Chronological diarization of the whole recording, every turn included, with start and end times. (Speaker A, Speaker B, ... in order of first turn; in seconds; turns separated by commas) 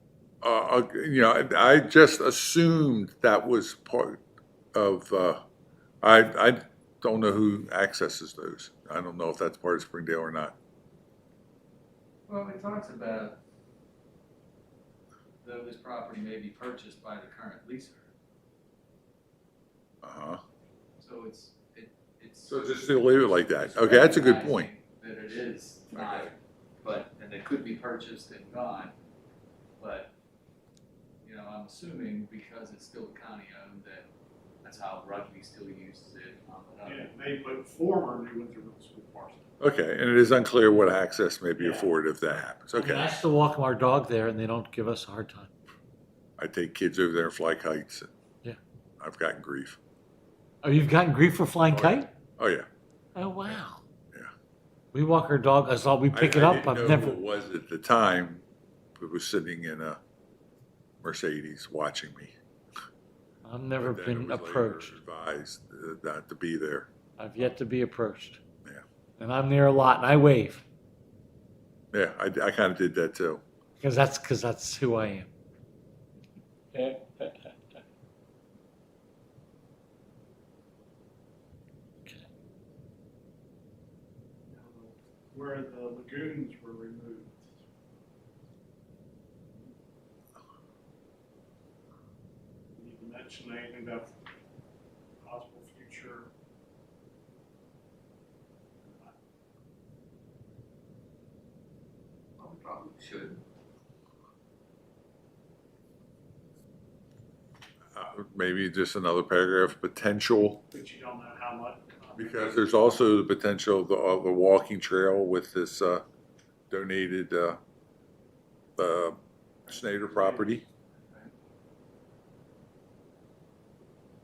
Speaker A: 0.4-4.2, Speaker A: 4.7-5.4, Speaker A: 6.0-10.6, Speaker B: 12.3-13.4, Speaker B: 15.4-18.1, Speaker A: 20.0-20.4, Speaker B: 21.0-28.9, Speaker A: 22.5-24.7, Speaker A: 25.9-26.3, Speaker B: 29.8-30.1, Speaker B: 31.2-34.1, Speaker B: 34.6-37.1, Speaker C: 36.8-39.4, Speaker A: 39.6-43.2, Speaker C: 41.5-41.9, Speaker D: 42.7-45.5, Speaker A: 46.4-48.1, Speaker A: 49.0-49.8, Speaker D: 50.6-52.1, Speaker A: 51.7-52.6, Speaker D: 53.1-53.8, Speaker D: 54.9-57.2, Speaker A: 56.1-58.4, Speaker A: 59.0-60.0, Speaker A: 61.0-62.3, Speaker D: 63.4-65.0, Speaker A: 63.8-66.9, Speaker D: 67.2-68.4, Speaker D: 69.2-70.6, Speaker A: 71.9-73.4, Speaker D: 73.8-75.3, Speaker D: 76.7-77.3, Speaker C: 84.5-87.5, Speaker C: 92.7-94.1, Speaker C: 95.2-96.3, Speaker C: 98.8-99.2, Speaker B: 102.4-103.4, Speaker A: 107.9-110.6, Speaker C: 110.7-112.7, Speaker A: 112.2-116.0, Speaker A: 116.7-117.6, Speaker A: 118.8-120.6, Speaker B: 121.0-121.3